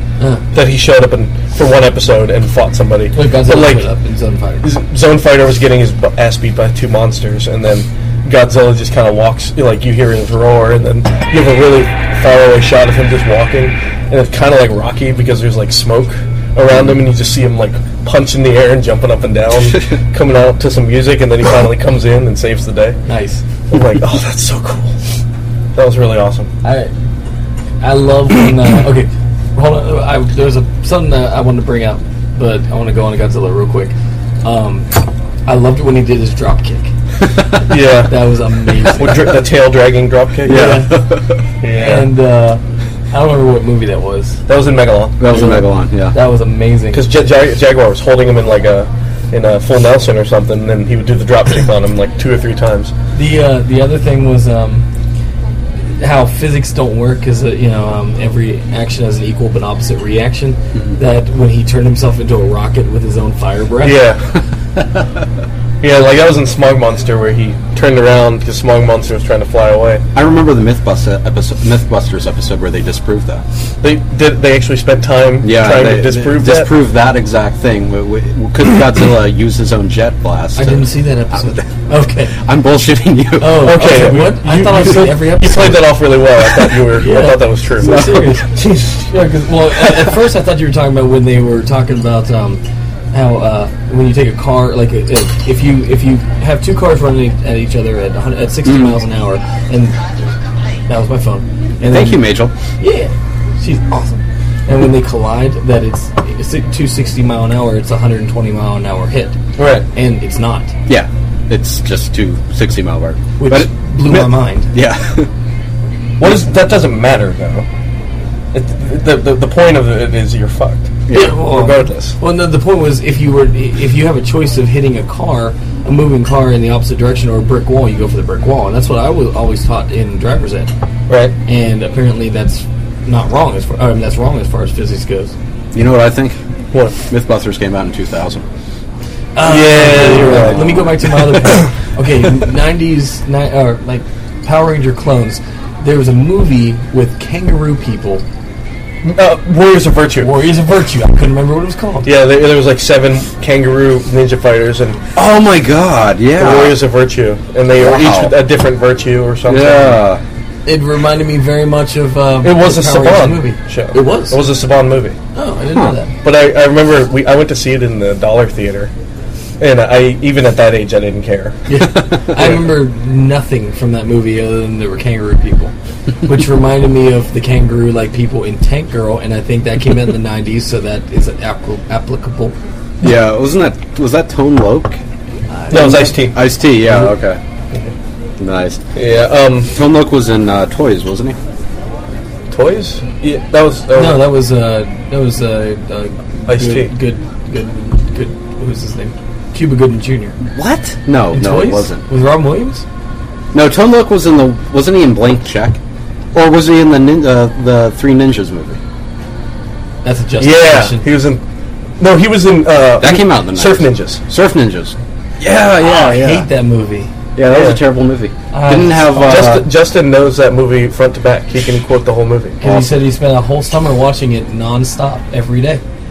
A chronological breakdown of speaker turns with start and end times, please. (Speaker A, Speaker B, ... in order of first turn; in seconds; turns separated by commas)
Speaker A: 0.2-0.4, Speaker B: 0.5-3.9, Speaker A: 3.1-4.7, Speaker B: 4.6-23.0, Speaker A: 23.1-23.4, Speaker B: 23.7-24.9, Speaker B: 25.8-26.5, Speaker A: 26.6-26.9, Speaker A: 27.8-34.9, Speaker A: 35.5-36.9, Speaker C: 37.2-37.6, Speaker B: 37.7-38.2, Speaker A: 38.1-39.3, Speaker B: 39.0-40.8, Speaker C: 40.4-41.4, Speaker A: 40.5-40.9, Speaker B: 41.6-42.1, Speaker A: 41.7-42.6, Speaker A: 43.1-44.4, Speaker B: 44.5-45.2, Speaker C: 45.2-46.1, Speaker A: 45.3-47.0, Speaker B: 46.9-52.9, Speaker A: 53.1-54.9, Speaker A: 55.9-64.0, Speaker B: 63.8-64.2, Speaker B: 65.8-70.0, Speaker C: 70.1-73.4, Speaker B: 73.8-76.7, Speaker C: 75.4-81.6, Speaker A: 80.6-82.3, Speaker C: 82.3-84.0, Speaker A: 83.4-85.9, Speaker B: 83.6-89.1, Speaker A: 86.9-88.5, Speaker C: 87.8-88.3, Speaker A: 89.1-99.9, Speaker B: 89.8-90.1, Speaker C: 98.7-99.0, Speaker A: 100.9-109.4, Speaker C: 101.8-102.5, Speaker B: 109.6-109.9, Speaker A: 109.9-110.7, Speaker C: 110.9-115.3, Speaker A: 113.4-114.7, Speaker B: 116.2-117.7, Speaker B: 118.5-122.2, Speaker C: 121.1-121.4, Speaker A: 121.1-130.7, Speaker B: 131.1-131.3, Speaker A: 131.4-135.3, Speaker C: 135.7-136.4, Speaker C: 137.1-138.4, Speaker A: 139.3-148.2, Speaker B: 139.4-141.7, Speaker C: 140.3-140.8, Speaker B: 149.0-150.3, Speaker A: 150.2-152.1, Speaker B: 152.0-155.0, Speaker C: 155.1-156.8, Speaker B: 156.4-160.0, Speaker C: 157.7-158.4, Speaker C: 159.4-160.2, Speaker A: 160.7-164.4, Speaker B: 162.4-165.2, Speaker A: 165.3-166.1, Speaker B: 166.2-168.9, Speaker B: 169.6-171.6, Speaker A: 171.7-182.6, Speaker C: 183.0-185.0, Speaker A: 185.5-186.2, Speaker B: 185.7-186.4, Speaker C: 186.3-187.4, Speaker C: 188.4-188.8, Speaker B: 188.9-189.7, Speaker C: 189.7-191.4, Speaker B: 192.5-194.3, Speaker A: 193.9-200.4, Speaker B: 196.5-196.9, Speaker C: 200.4-202.0, Speaker A: 201.3-202.8, Speaker C: 203.5-205.8, Speaker C: 206.3-208.8, Speaker A: 210.0-211.1, Speaker B: 210.4-211.4, Speaker B: 212.0-214.2, Speaker C: 213.0-216.4, Speaker A: 215.8-217.1, Speaker C: 217.3-219.7, Speaker B: 217.4-217.8, Speaker A: 218.5-219.6, Speaker B: 219.2-222.6, Speaker A: 222.6-225.8, Speaker C: 222.6-222.9